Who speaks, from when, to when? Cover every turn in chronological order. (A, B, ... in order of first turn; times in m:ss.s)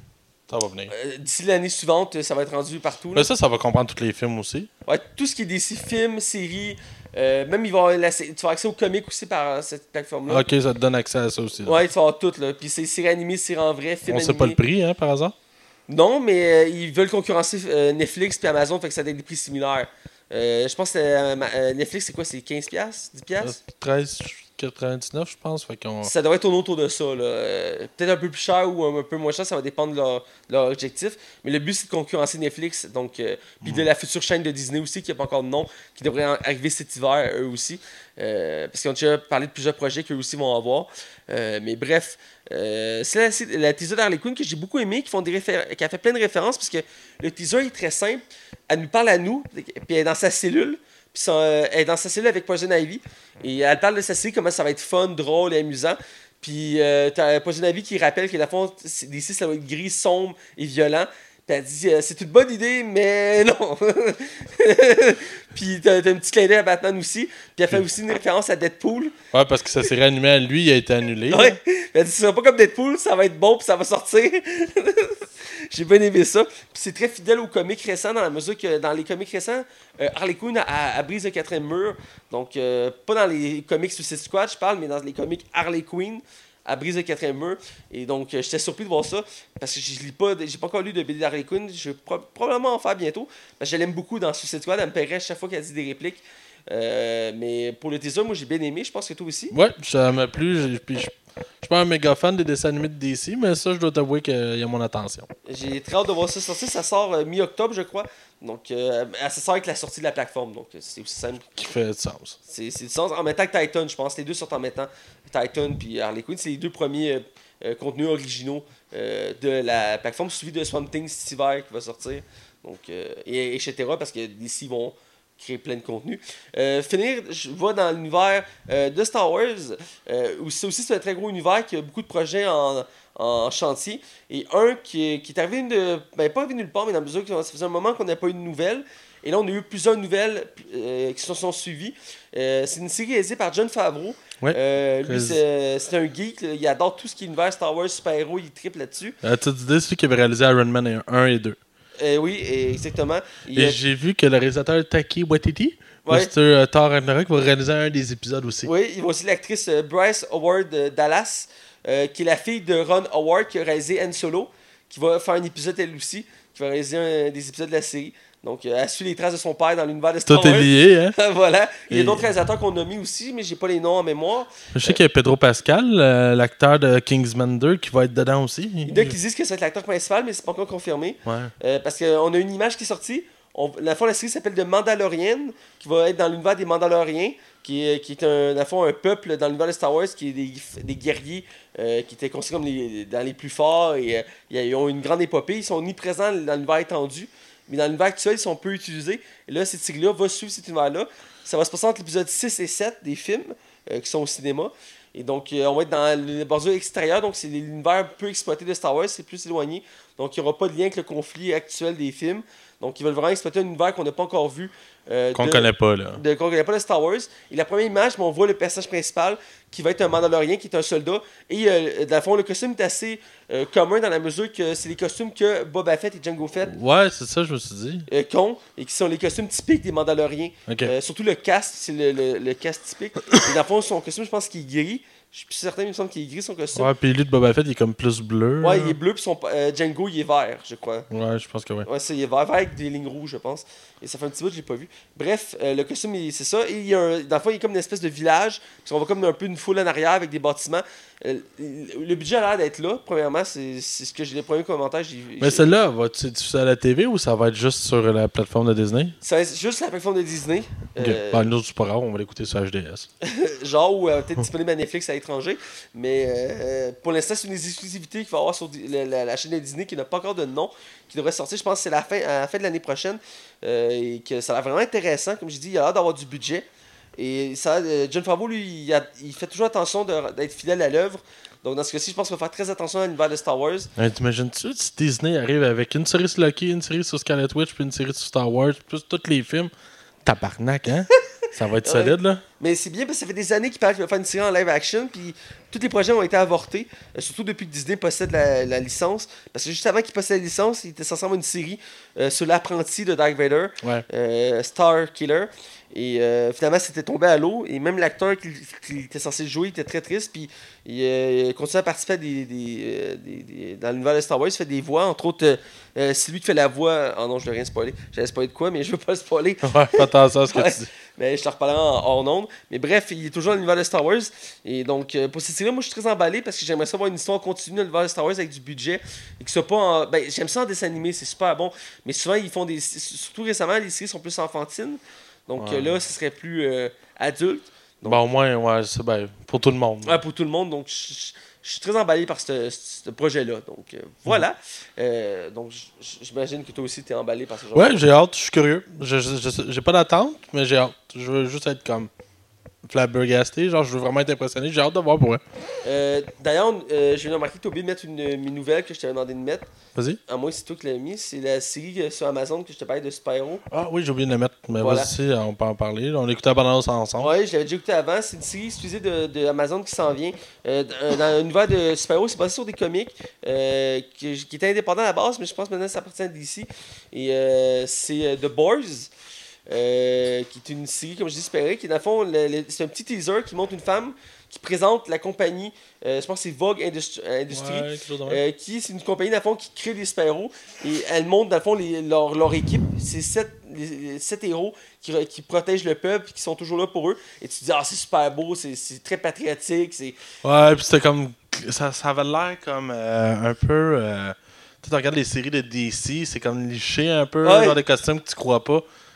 0:00.5-0:00.9 A
0:00.9-0:03.3 B
0:03.1-0:04.7 A
0:04.8-0:10.4 B
0:10.3-0:11.8 A
0:11.6-0:14.6 B
0:14.1-0:15.3 A
0:15.9-0:23.6 B
0:23.4-0:26.1 A
0:26.0-1:09.1 B
1:09.3-1:11.6 A
1:11.3-1:39.5 B
1:39.5-1:45.3 A
1:45.5-1:51.5 B
1:51.5-1:52.4 A
1:52.5-2:29.2 B
2:24.4-2:25.4 A
2:29.2-2:31.6 A
2:32.0-2:33.8 B
2:33.5-2:38.7 A
2:36.0-2:36.3 B
2:38.6-2:55.0 B
2:50.3-2:51.2 A
2:51.9-2:52.2 A
2:54.7-2:59.2 A
2:58.8-3:46.7 B
3:01.2-3:01.5 A
3:35.3-3:36.2 A
3:46.7-3:48.1 A
3:48.1-3:56.9 B
3:50.7-3:50.9 A
3:56.8-3:59.0 A
3:58.6-4:01.1 B
4:01.1-4:01.9 A
4:01.8-4:15.8 B
4:15.4-4:19.2 A
4:19.2-4:21.5 B
4:21.0-4:23.1 A
4:23.2-4:36.6 B
4:37.2-4:43.9 B
4:44.0-4:49.7 A
4:50.2-4:52.4 A
4:51.8-5:38.2 B
5:19.6-5:20.9 A
5:35.6-5:36.0 A
5:38.0-5:40.2 A
5:40.0-5:48.0 B
5:47.7-5:52.1 A
5:52.8-5:55.4 A
5:55.8-5:59.7 B
5:59.9-6:00.2 A
6:00.3-6:03.6 B
6:03.7-6:07.3 A
6:04.8-6:05.1 B
6:07.2-6:19.1 B
6:19.7-6:40.2 B
6:27.5-6:28.4 A
6:40.4-6:48.8 A
6:47.4-6:47.8 B